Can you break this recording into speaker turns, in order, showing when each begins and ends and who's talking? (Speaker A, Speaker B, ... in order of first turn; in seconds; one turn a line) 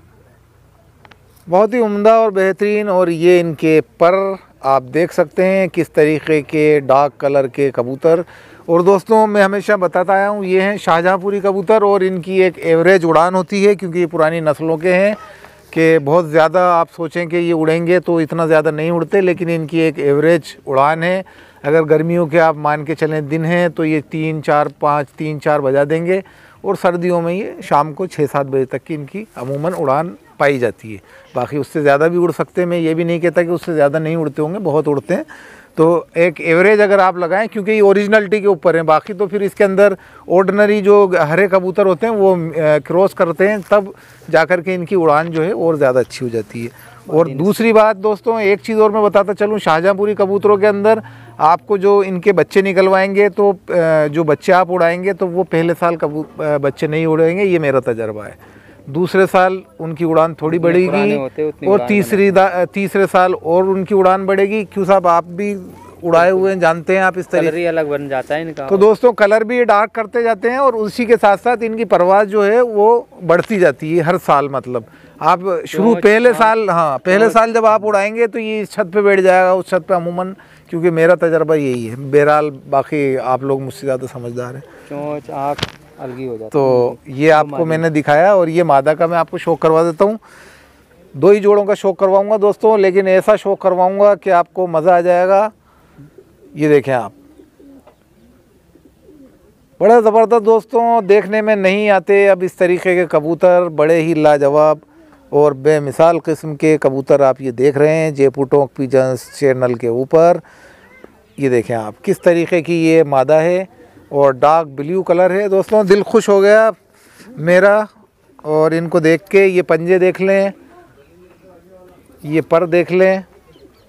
Speaker A: 1.5-15.2
Speaker A: 15.7-58.4
Speaker B: 47.1-47.5
Speaker A: 58.9-67.5
Speaker B: 60.5-62.4
Speaker B: 67.3-68.9
Speaker A: 68.7-84.7
Speaker B: 75.7-76.6
Speaker B: 77.1-77.4
Speaker B: 84.9-87.8
Speaker A: 86.5-90.2
Speaker A: 91.1-95.5
Speaker A: 96.5-97.2
Speaker A: 99.8-110.4
Speaker A: 111.4-116.8
Speaker A: 117.3-117.9
Speaker A: 118.4-120.5
Speaker A: 122.2-123.3